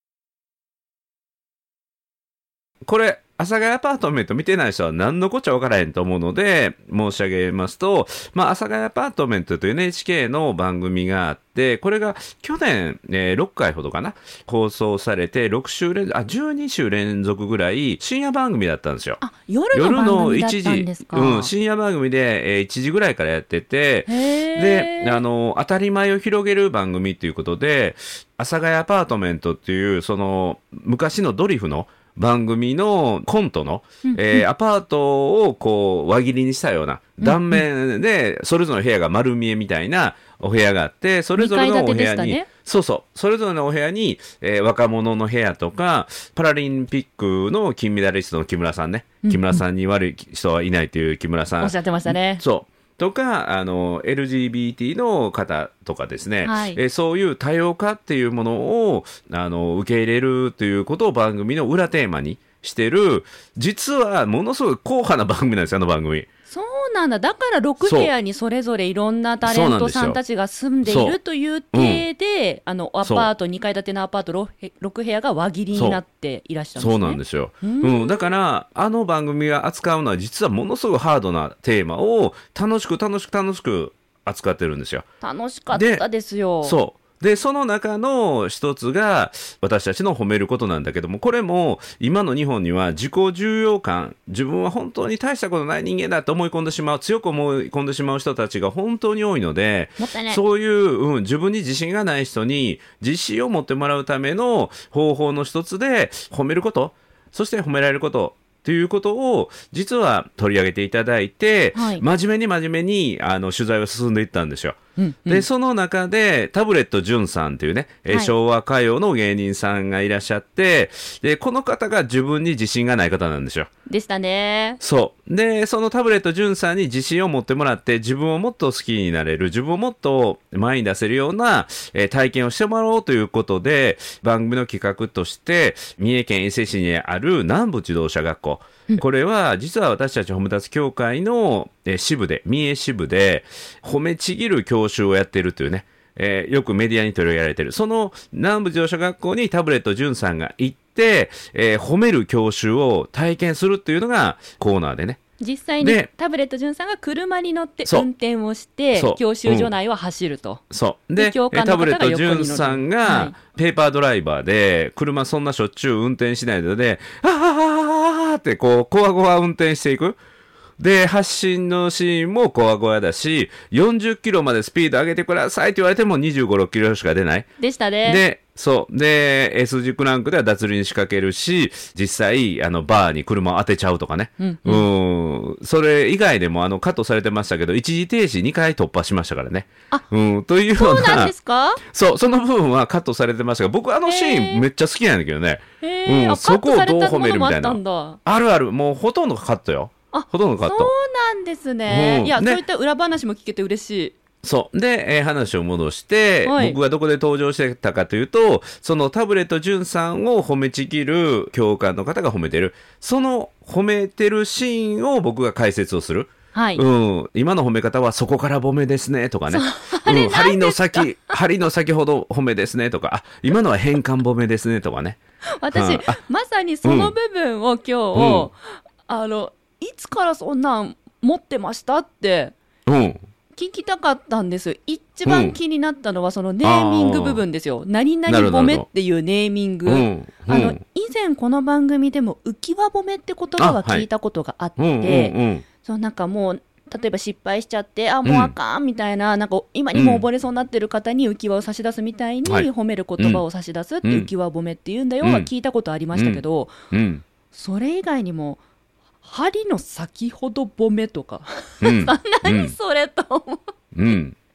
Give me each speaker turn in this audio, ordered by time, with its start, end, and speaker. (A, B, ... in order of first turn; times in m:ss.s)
0:02.8-0:19.2 A
0:19.2-0:21.5 B
0:19.7-1:06.3 A
0:24.1-0:25.2 B
0:34.0-0:34.4 B
0:37.2-0:37.6 B
0:41.4-0:42.5 B
0:49.2-0:49.6 B
0:51.6-0:52.4 B
0:56.4-0:56.8 B
1:06.5-1:18.3 B
1:07.8-1:08.1 A
1:09.4-1:10.2 A
1:10.8-1:11.2 A
1:11.7-1:12.0 A
1:13.0-1:13.3 A
1:15.7-1:16.0 A
1:16.8-1:25.1 A
1:25.2-1:26.8 B
1:25.7-1:26.0 A
1:26.6-2:03.7 A
1:40.0-1:40.4 B
1:51.7-1:52.0 B
1:55.0-1:55.4 B
2:03.9-2:04.8 B
2:04.8-2:35.2 A
2:35.4-2:40.6 B
2:35.8-2:36.1 A
2:38.9-2:39.7 A
2:40.7-2:50.2 A
2:41.2-2:43.3 B
2:50.8-2:57.5 A
2:57.6-2:58.2 B
2:58.0-3:20.9 A
3:04.4-3:04.9 B
3:10.8-3:11.8 B
3:14.0-3:14.6 B
3:15.8-3:18.2 B
3:20.1-3:24.2 B
3:21.9-3:22.6 A
3:24.4-3:45.2 A
3:26.4-3:26.8 B
3:36.5-3:36.8 B
3:39.5-3:41.3 B
3:45.6-3:52.5 B
3:45.7-3:46.2 A
3:46.8-3:47.1 A
3:48.1-3:48.5 A
3:52.8-3:53.2 A
3:53.6-4:16.8 B
3:55.2-3:55.6 A
3:56.6-3:57.4 A
3:58.3-3:58.9 A
3:59.8-4:00.8 A
4:03.6-4:04.0 A
4:04.8-4:05.6 A
4:08.2-4:08.5 A
4:09.9-4:10.2 A
4:14.0-4:14.3 A
4:15.2-4:15.5 A
4:16.1-4:17.2 A
4:17.5-4:18.6 B
4:19.2-4:23.6 B
4:21.8-4:22.7 A
4:23.9-4:24.4 A